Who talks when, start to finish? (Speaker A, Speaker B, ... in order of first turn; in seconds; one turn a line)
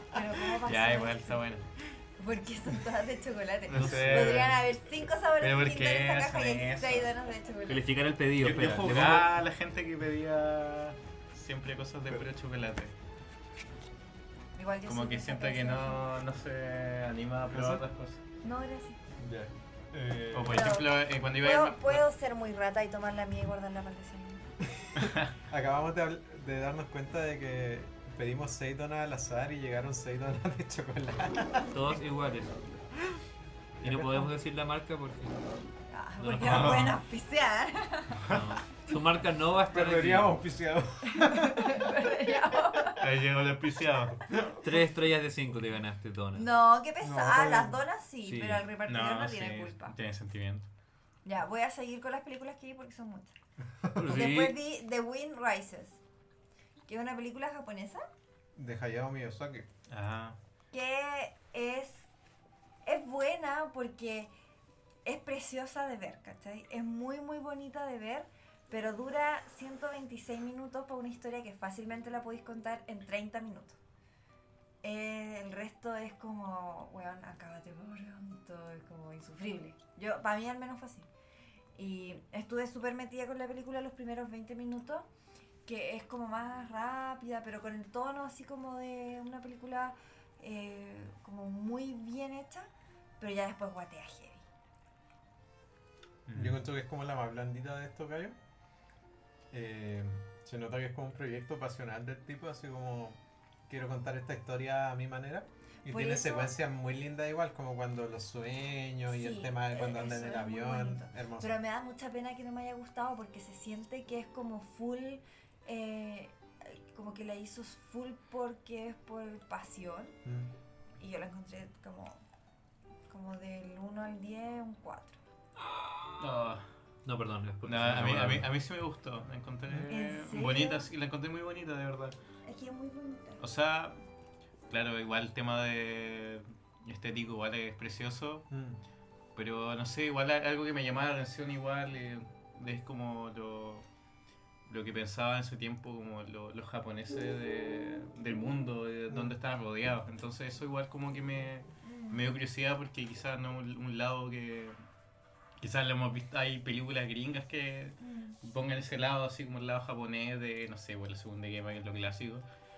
Speaker A: 0.1-1.4
Speaker B: 0.6-1.6
Speaker A: 2.2-7.8
Speaker B: 3.7-4.6
Speaker C: 3.8-4.3
Speaker B: 5.4-7.1
Speaker C: 7.7-9.3
Speaker B: 8.4-12.9
Speaker A: 14.6-16.1
Speaker B: 14.9-18.2
Speaker D: 17.5-17.8
Speaker A: 18.4-19.0
Speaker D: 19.2-20.7
Speaker B: 20.3-22.1
Speaker A: 20.5-24.5
Speaker D: 24.7-31.8
Speaker B: 25.0-25.3
Speaker C: 31.7-32.8
Speaker D: 33.8-34.3
Speaker C: 33.8-35.4
Speaker A: 35.9-38.2
Speaker B: 36.2-37.0
Speaker C: 36.2-36.9
Speaker B: 38.2-38.5
Speaker C: 38.2-40.4
Speaker D: 39.7-42.0
Speaker A: 41.1-43.0
Speaker B: 43.0-44.2
Speaker D: 44.3-44.6
Speaker C: 44.6-46.5
Speaker A: 46.4-49.9
Speaker D: 47.0-47.8
Speaker C: 48.2-48.6
Speaker B: 48.9-50.7
Speaker A: 51.2-53.4
Speaker C: 53.9-54.6
Speaker A: 54.1-56.0
Speaker A: 56.9-58.0
Speaker D: 58.6-59.7
Speaker B: 59.9-60.4
Speaker A: 60.7-62.1
Speaker A: 62.9-64.3
Speaker A: 65.0-73.8
Speaker A: 74.8-81.1
Speaker A: 81.8-85.1
Speaker A: 85.6-94.4
Speaker B: 96.3-96.6
Speaker D: 96.3-98.4
Speaker D: 99.5-111.5
Speaker A: 105.9-106.5
Speaker A: 109.1-120.2
Speaker D: 120.2-120.5
Speaker A: 121.0-122.2
Speaker A: 123.1-125.2
Speaker B: 126.2-126.6
Speaker C: 127.0-128.5
Speaker B: 127.6-132.1
Speaker A: 129.9-130.9
Speaker A: 132.4-133.4
Speaker B: 133.4-134.0
Speaker B: 134.7-138.5
Speaker D: 138.5-138.8
Speaker B: 139.4-143.9
Speaker B: 144.7-154.8
Speaker A: 151.8-152.2
Speaker B: 155.6-162.4
Speaker A: 158.0-158.4